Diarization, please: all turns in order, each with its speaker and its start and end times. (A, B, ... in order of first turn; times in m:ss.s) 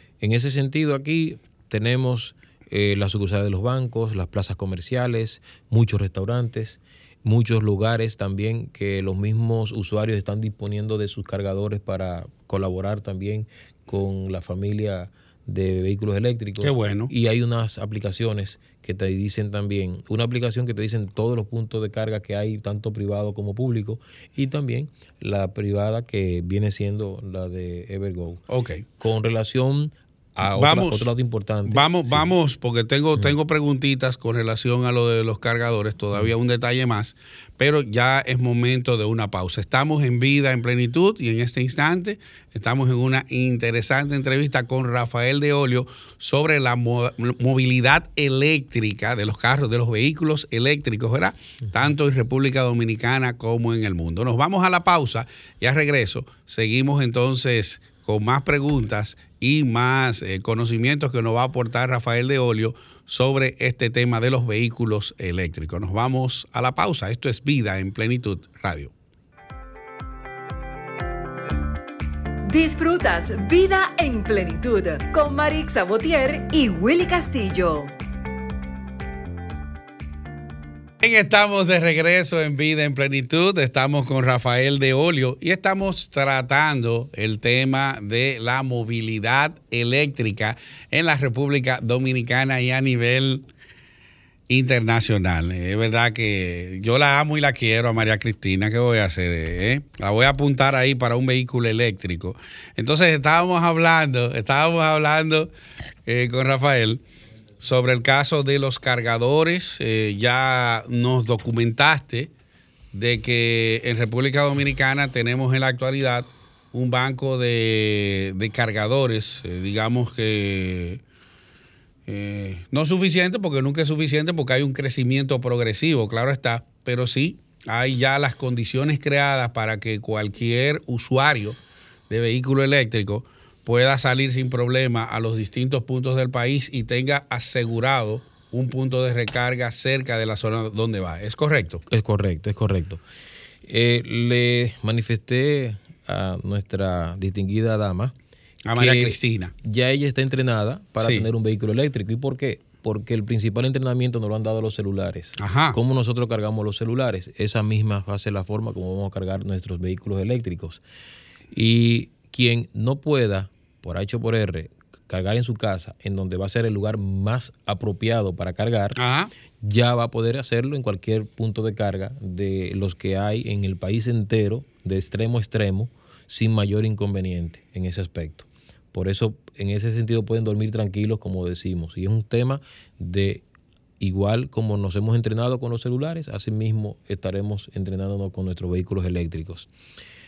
0:00.2-0:28.4 A
0:16.6-0:17.1 B
0:28.5-0:28.8 B
0:29.0-0:32.3 A
0:30.5-0:31.1 B
0:31.6-1:08.9 B
1:12.4-1:17.9 C
1:21.0-1:33.4 B
1:34.5-1:45.5 B
1:46.0-1:47.0 B
1:47.6-1:52.3 B
1:52.9-2:01.0 B
2:02.1-2:21.8 B
2:21.9-2:23.0 A
2:23.6-2:28.1 A
2:28.6-2:29.5 B
2:28.7-2:40.8 A
2:31.0-2:31.3 B
2:35.4-2:35.8 B
2:41.5-2:49.0 A
2:49.0-2:49.3 B
2:49.6-3:03.4 A
3:04.0-3:09.7 A